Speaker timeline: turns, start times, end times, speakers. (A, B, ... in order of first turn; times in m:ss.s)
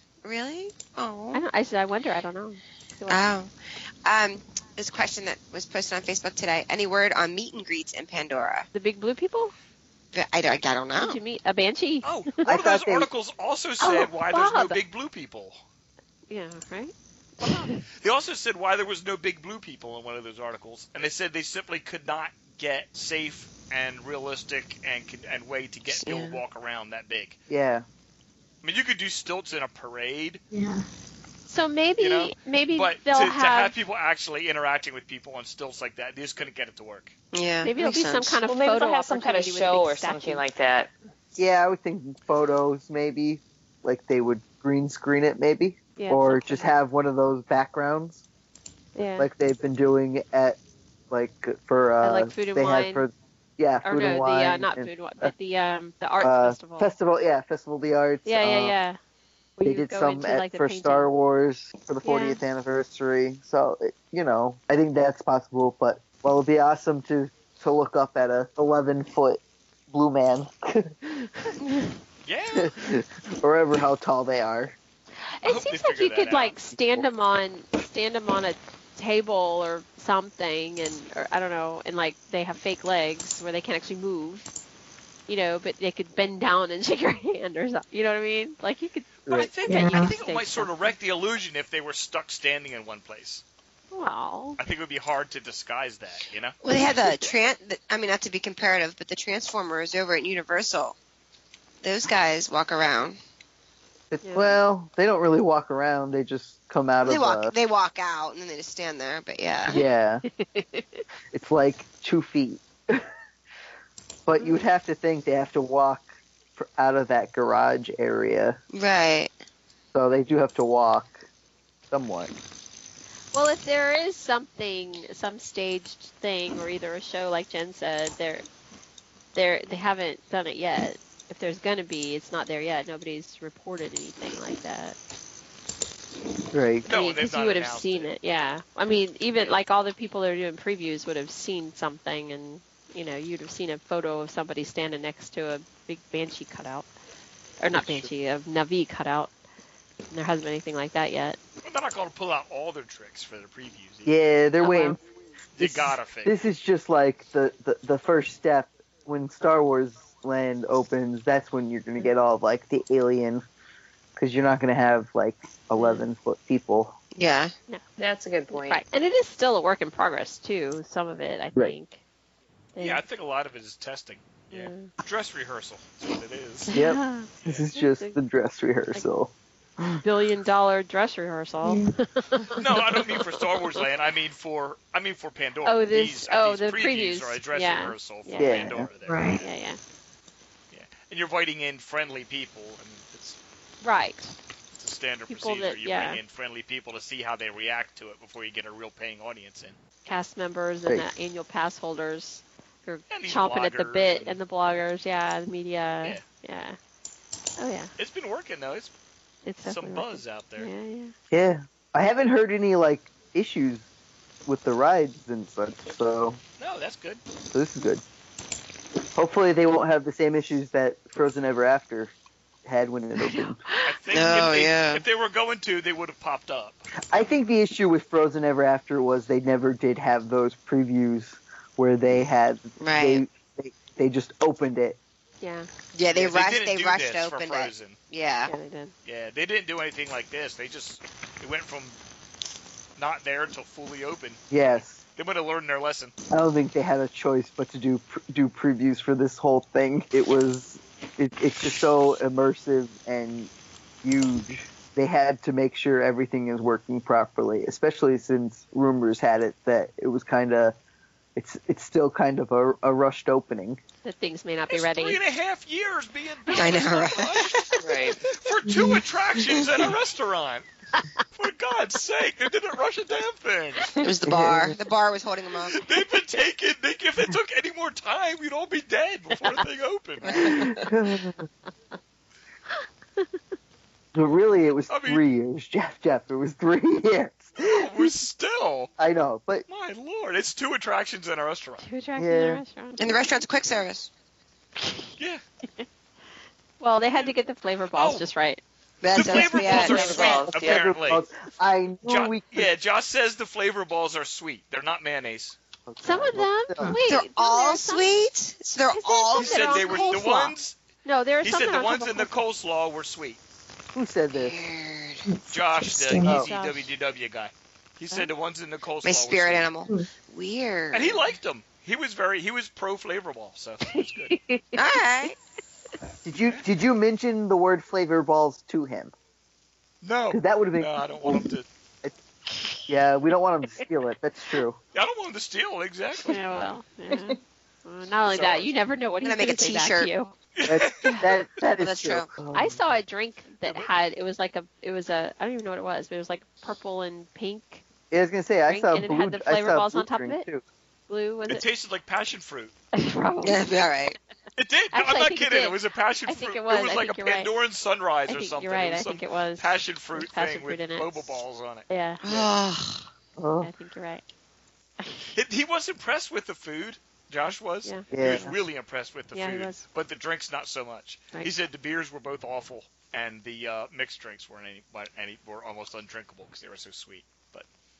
0:00.2-0:01.4 A
0:01.3-0:03.2 B
0:03.1-0:08.7 A
0:08.7-0:09.5 B
0:10.1-0:11.2 A
0:11.0-0:12.1 B
0:12.0-0:15.6 C
0:12.4-0:13.1 D
0:13.8-0:14.8 B
0:16.3-0:17.8 B
0:17.4-0:27.4 C
0:25.9-0:26.4 A
0:27.5-0:27.8 D
0:28.6-0:30.4 C
0:30.5-0:30.8 E
0:31.5-0:33.7 B
0:32.0-0:37.1 C
0:37.3-0:38.4 A
0:37.6-0:40.4 B
0:38.4-0:40.9 F
0:41.4-0:48.2 D
0:46.0-0:46.7 B
0:48.9-0:49.3 B
0:49.2-0:55.3 D
0:52.0-0:53.1 B
0:53.8-0:56.9 B
0:56.2-0:58.7 D
0:58.2-0:59.0 B
0:59.6-1:01.1 B
0:59.6-1:11.1 D
1:02.0-1:02.4 B
1:12.2-1:12.8 C
1:12.6-1:14.8 D
1:15.4-1:24.5 B
1:15.4-1:16.5 C
1:25.3-1:29.1 B
1:29.2-1:29.5 D
1:29.3-1:33.4 C
1:29.6-1:30.1 E
1:29.7-1:30.9 B
1:33.9-1:34.6 B
1:34.6-1:36.6 C
1:36.6-1:41.0 A
1:41.8-1:43.2 A
1:44.1-1:47.5 D
1:44.2-1:44.6 B
1:47.0-1:49.8 A
1:49.7-1:50.2 D
1:49.8-1:51.0 B
1:51.3-1:53.0 D
1:54.2-1:58.6 D
1:54.4-1:54.6 B
1:58.7-1:59.3 A
1:59.9-2:01.2 D
2:01.9-2:02.3 D
2:03.3-2:08.4 B
2:09.3-2:15.0 B
2:16.5-2:16.8 D
2:16.8-2:26.9 B
2:16.9-2:18.1 C
2:27.6-2:29.3 B
2:27.8-2:28.1 D
2:30.1-2:31.4 B
2:31.6-2:34.2 C
2:34.0-2:35.0 D
2:34.6-2:35.0 B
2:35.6-2:36.4 C
2:35.6-2:43.4 D
2:44.2-2:47.0 D
2:45.8-2:46.1 B
2:47.2-2:47.5 A
2:48.0-2:48.8 F
2:48.5-2:52.0 B
2:52.8-2:53.0 B
2:52.8-2:56.7 C
2:54.5-2:54.9 B
2:56.7-2:58.2 B
2:56.7-3:00.0 D
3:00.0-3:03.8 B
3:01.6-3:01.9 E
3:02.6-3:09.5 C
3:05.6-3:08.7 B
3:08.4-3:08.9 D
3:09.0-3:09.4 E
3:09.4-3:09.8 B
3:10.7-3:13.4 C
3:13.8-3:14.3 B
3:14.7-3:19.8 C
3:15.3-3:16.2 B
3:20.0-3:26.8 B
3:23.1-3:24.4 C
3:27.6-3:27.9 B
3:28.0-3:28.9 C
3:29.4-3:31.1 B
3:29.6-3:30.7 C
3:31.3-3:33.9 D
3:34.4-3:36.4 D
3:36.6-3:37.2 C
3:37.5-3:38.0 D
3:39.1-3:43.6 D
3:43.2-3:44.0 B
3:43.8-3:46.9 C
3:44.1-3:45.0 A
3:47.1-3:55.0 D
3:52.8-3:53.2 A
3:55.4-3:55.7 B
3:55.9-3:58.5 A
3:56.1-3:58.0 C
3:58.4-3:58.9 B
3:59.0-4:02.0 C
4:03.0-4:06.1 C
4:04.5-4:05.0 D
4:06.3-4:13.5 D
4:14.0-4:20.7 D
4:21.4-4:23.8 D
4:24.0-4:25.2 B
4:24.7-4:30.7 C
4:26.5-4:27.8 A
4:27.8-4:28.2 F
4:28.6-4:29.0 E
4:29.5-4:29.8 A
4:31.3-4:33.9 C
4:34.0-4:35.8 A
4:34.2-4:34.8 D
4:35.7-4:40.5 C
4:39.3-4:39.6 B
4:40.2-4:40.6 A
4:40.3-4:41.4 D
4:44.1-4:47.9 D
4:44.9-4:45.2 C
4:47.6-4:48.9 C
4:49.0-4:49.6 D
4:49.7-4:51.8 C
4:51.8-4:53.3 B
4:52.2-4:52.6 D
4:53.0-4:54.1 A
4:54.8-4:55.1 B
4:56.8-4:58.6 B
4:57.9-4:58.2 C
4:59.0-5:00.4 A
4:59.1-5:01.2 C
4:59.2-5:01.0 F
5:00.5-5:02.7 D
5:02.0-5:05.6 C
5:05.9-5:06.9 D
5:06.0-5:08.3 B
5:06.8-5:07.0 E
5:07.1-5:10.1 A
5:08.9-5:12.3 B
5:09.3-5:10.8 C
5:11.4-5:13.4 C
5:13.9-5:14.6 D
5:14.3-5:15.2 A
5:15.2-5:16.4 E
5:15.5-5:19.7 C
5:16.2-5:16.5 D
5:16.3-5:16.9 B
5:19.0-5:21.3 A
5:20.9-5:24.4 C
5:23.9-5:24.8 B
5:24.7-5:25.4 A
5:26.2-5:29.1 D
5:26.4-5:26.6 C
5:30.0-5:31.6 C
5:30.3-5:31.5 D
5:32.9-5:34.8 D
5:34.9-5:36.6 C
5:36.3-5:40.3 B
5:38.3-5:38.7 C
5:39.2-5:40.1 A
5:40.5-5:41.3 C
5:40.7-5:42.8 D
5:41.0-5:41.3 B
5:41.8-5:42.3 A
5:42.5-5:47.8 B
5:43.6-5:43.9 C
5:48.1-5:50.6 D
5:48.7-5:50.4 B
5:51.1-5:51.6 B
5:51.5-5:52.7 C
5:52.9-5:53.7 B
5:53.4-5:54.2 A
5:54.6-6:02.5 C
5:54.9-5:57.5 B
5:58.3-6:01.4 B
6:01.9-6:02.2 B
6:02.2-6:03.1 A
6:03.4-6:03.7 D
6:03.6-6:04.2 B
6:05.0-6:05.3 B
6:05.3-6:17.6 C
6:08.1-6:08.5 D
6:09.3-6:09.8 B